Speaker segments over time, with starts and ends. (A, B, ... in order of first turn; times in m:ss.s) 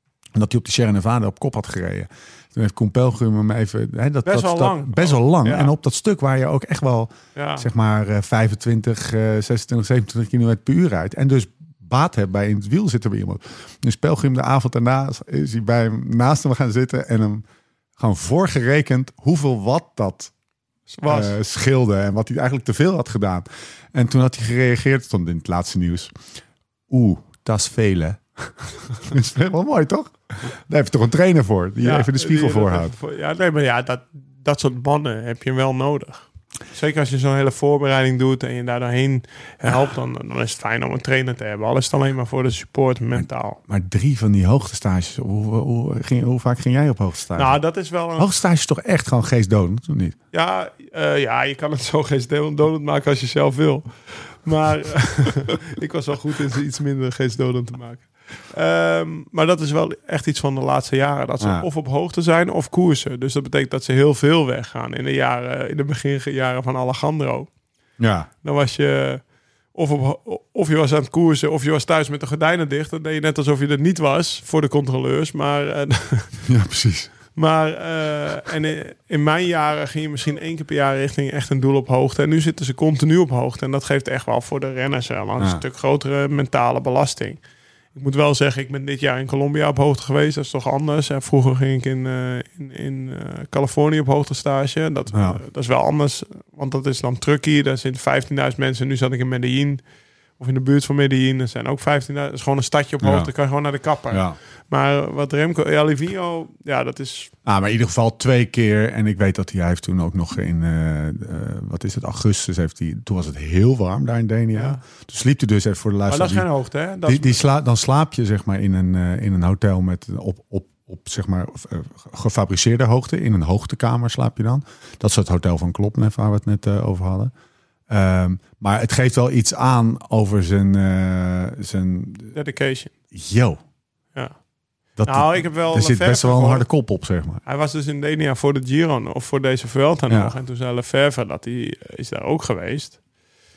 0:00.4-0:17.4 A
0:04.2-0:05.7 B
0:07.4-0:07.7 B
0:18.0-0:20.3 A
0:20.9-0:21.4 B
0:21.0-0:26.2 A
0:26.9-0:33.0 A
0:31.8-0:43.6 B
0:43.2-0:47.6 A
0:47.4-0:48.3 B
0:48.2-0:50.2 A
0:50.3-1:07.5 B
1:01.4-1:01.7 A
1:08.0-1:08.3 A
1:08.4-1:16.4 B
1:16.4-1:17.1 A
1:17.4-1:27.4 B
1:27.9-1:39.8 B
1:35.1-1:35.4 A
1:40.4-1:47.3 B
1:43.0-1:43.3 A
1:44.1-1:44.4 A
1:47.4-1:56.5 A
1:54.5-1:54.8 B
1:56.1-1:57.4 B
1:57.1-2:07.3 A
2:07.9-2:12.4 A
2:12.3-2:12.9 B
2:13.1-2:13.6 A
2:14.1-2:14.4 B
2:15.0-2:17.4 A
2:15.1-2:16.6 B
2:17.4-2:23.0 B
2:20.1-2:20.3 A